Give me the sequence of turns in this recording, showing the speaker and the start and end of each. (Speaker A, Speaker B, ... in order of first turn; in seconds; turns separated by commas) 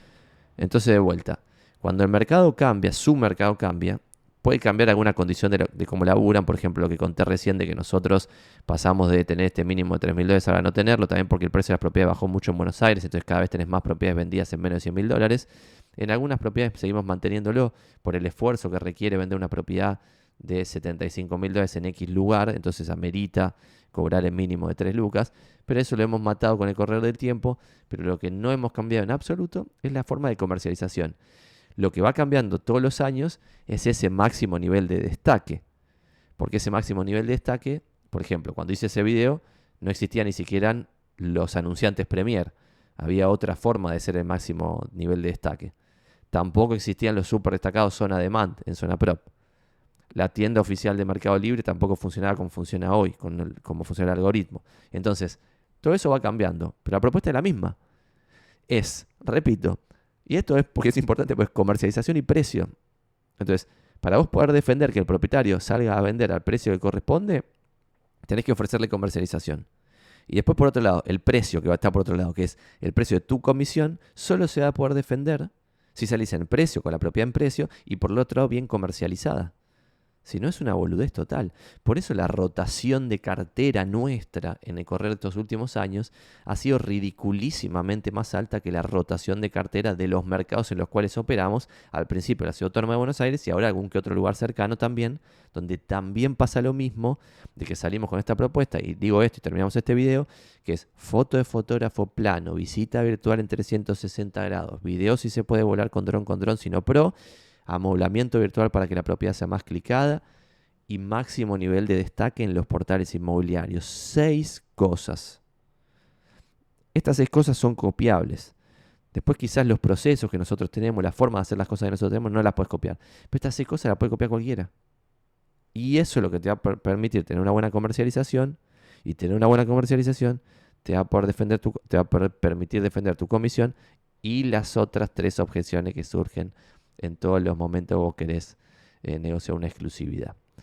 Speaker A: 0.6-31.2, Speaker A: 31.8-35.6, Speaker A: 36.4-45.7, Speaker A: 46.3-49.2, Speaker A: 50.1-57.8, Speaker A: 58.7-62.7, Speaker A: 63.4-67.5, Speaker A: 68.3-69.7, Speaker A: 70.3-79.5, Speaker A: 80.2-107.1, Speaker A: 107.7-110.2, Speaker A: 110.9-115.4, Speaker A: 116.9-118.5, Speaker A: 119.1-124.7, Speaker A: 125.7-140.3